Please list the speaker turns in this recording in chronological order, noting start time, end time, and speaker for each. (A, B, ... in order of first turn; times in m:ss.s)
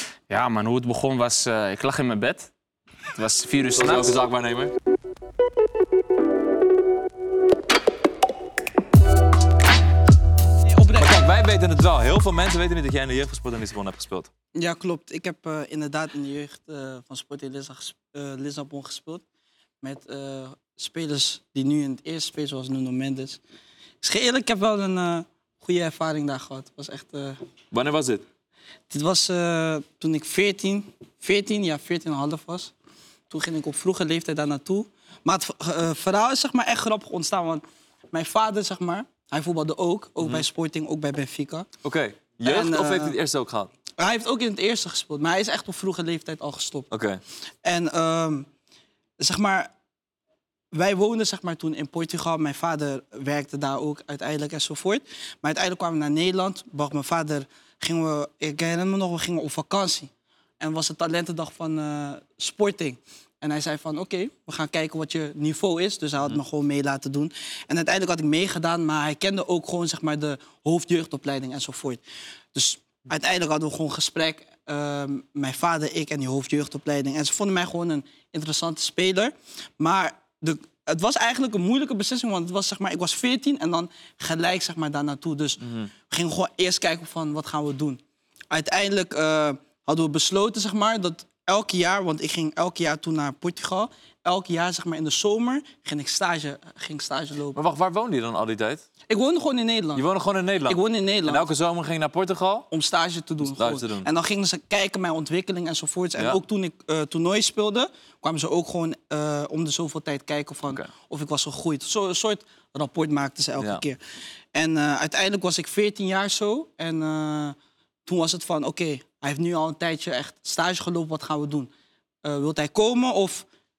0:00.3-0:02.5 A
0:03.1-0:04.2 A
0:03.8-0:04.7 B
0:10.6-0:11.3 C
0:11.0-0:14.3 B
0:14.6-0:19.2 C
0:19.8-0:23.4 C
0:24.0-0:27.4 C
0:27.7-0:28.2 B
0:28.9-0:32.7 C
0:33.3-0:41.7 C
0:40.2-0:40.4 B
0:41.8-0:43.7 B
0:42.4-0:43.2 C
0:44.0-0:46.9 C
0:46.9-0:47.2 B
0:47.6-0:48.5 C
0:49.2-0:49.7 C
0:50.7-1:12.0 C
1:12.5-1:28.0 C
1:25.6-1:25.9 B
1:28.5-1:37.6 C
1:37.5-1:38.8 B
1:39.1-1:40.1 C
1:40.0-1:42.7 B
1:40.7-1:41.5 C
1:42.7-1:54.0 C
1:43.4-1:44.1 B
1:53.6-1:53.8 B
1:54.5-2:01.7 C
2:02.2-2:03.5 C